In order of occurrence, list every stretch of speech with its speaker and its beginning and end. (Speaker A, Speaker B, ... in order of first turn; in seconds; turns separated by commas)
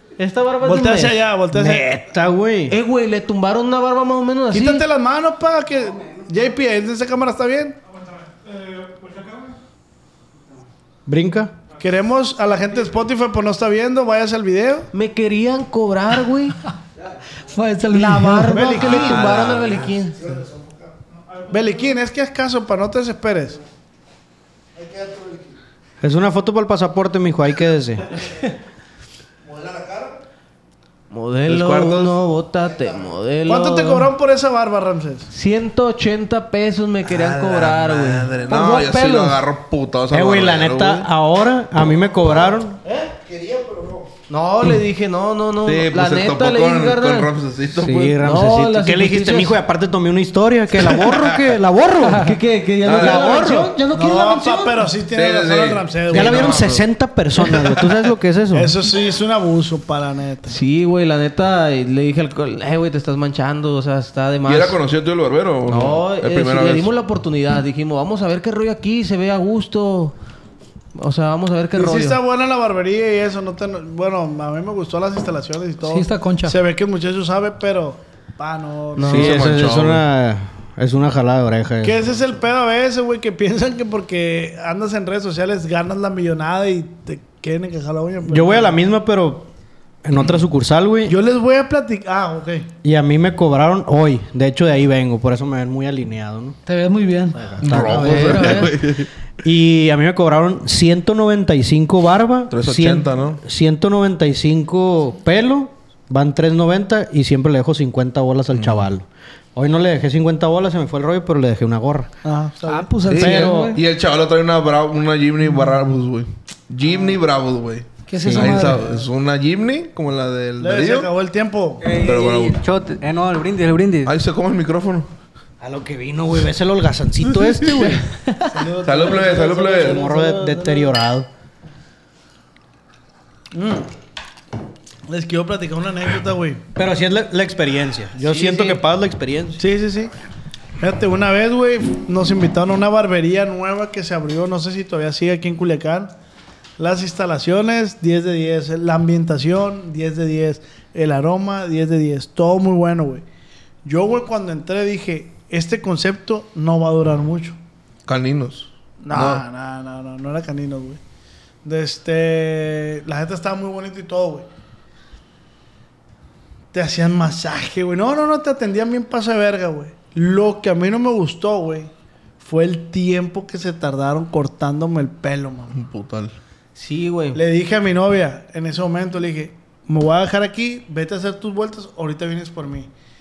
Speaker A: 0.2-1.2, Speaker B: 0.6-1.9, Speaker C: 1.5-2.8, Speaker A: 2.7-4.8, Speaker B: 4.5-7.8, Speaker C: 11.1-11.5, Speaker B: 11.8-14.9, Speaker A: 14.9-16.6, Speaker D: 17.5-18.7, Speaker B: 17.9-19.5, Speaker A: 18.3-20.2, Speaker E: 18.8-19.9, Speaker B: 20.3-20.7, Speaker B: 21.5-23.6, Speaker B: 24.8-25.5, Speaker C: 26.0-28.1, Speaker B: 29.5-30.2, Speaker A: 31.1-34.1, Speaker E: 31.5-32.2, Speaker B: 33.5-35.3, Speaker A: 35.3-38.3, Speaker E: 37.1-41.1, Speaker D: 38.5-39.4, Speaker C: 40.1-42.8, Speaker B: 42.2-44.1, Speaker A: 44.3-47.3, Speaker E: 45.7-48.1, Speaker C: 47.8-52.3, Speaker A: 48.2-49.6, Speaker E: 51.0-51.4, Speaker A: 52.2-53.8, Speaker E: 52.8-53.5, Speaker C: 52.9-53.8, Speaker B: 53.9-56.8, Speaker D: 54.0-54.8, Speaker E: 55.1-56.8, Speaker C: 56.1-58.7, Speaker B: 58.5-60.6, Speaker A: 60.5-64.8, Speaker E: 64.5-66.9, Speaker A: 65.7-70.2, Speaker A: 71.0-72.2, Speaker B: 71.7-79.5, Speaker D: 75.8-76.6, Speaker A: 79.0-79.4, Speaker C: 79.1-82.0, Speaker E: 79.1-80.0, Speaker B: 81.8-88.8, Speaker C: 88.3-89.5, Speaker C: 90.0-91.2, Speaker B: 91.1-92.7, Speaker C: 92.8-96.6, Speaker D: 96.7-97.4, Speaker C: 97.4-98.6, Speaker E: 97.6-99.1, Speaker A: 97.8-98.8, Speaker C: 99.4-112.1, Speaker E: 102.5-103.4, Speaker E: 108.6-108.8, Speaker B: 112.2-113.0, Speaker D: 112.7-113.8, Speaker E: 113.1-121.1, Speaker C: 113.2-113.8, Speaker B: 116.9-117.2, Speaker D: 118.1-118.9, Speaker C: 118.2-118.7, Speaker B: 120.6-122.0, Speaker F: 121.8-124.2, Speaker E: 122.0-122.6, Speaker E: 124.0-125.1, Speaker C: 125.6-128.1, Speaker B: 128.5-130.9, Speaker E: 128.8-130.0, Speaker C: 129.8-131.3, Speaker B: 133.5-133.9, Speaker B: 135.1-136.6, Speaker C: 136.8-139.6, Speaker B: 139.6-140.1, Speaker B: 140.8-146.1, Speaker B: 146.8-153.2, Speaker B: 153.8-157.6, Speaker E: 158.1-159.4, Speaker B: 159.0-161.0, Speaker B: 161.6-164.5, Speaker B: 166.7-175.8, Speaker E: 175.7-176.3, Speaker A: 176.8-177.4, Speaker B: 177.3-182.9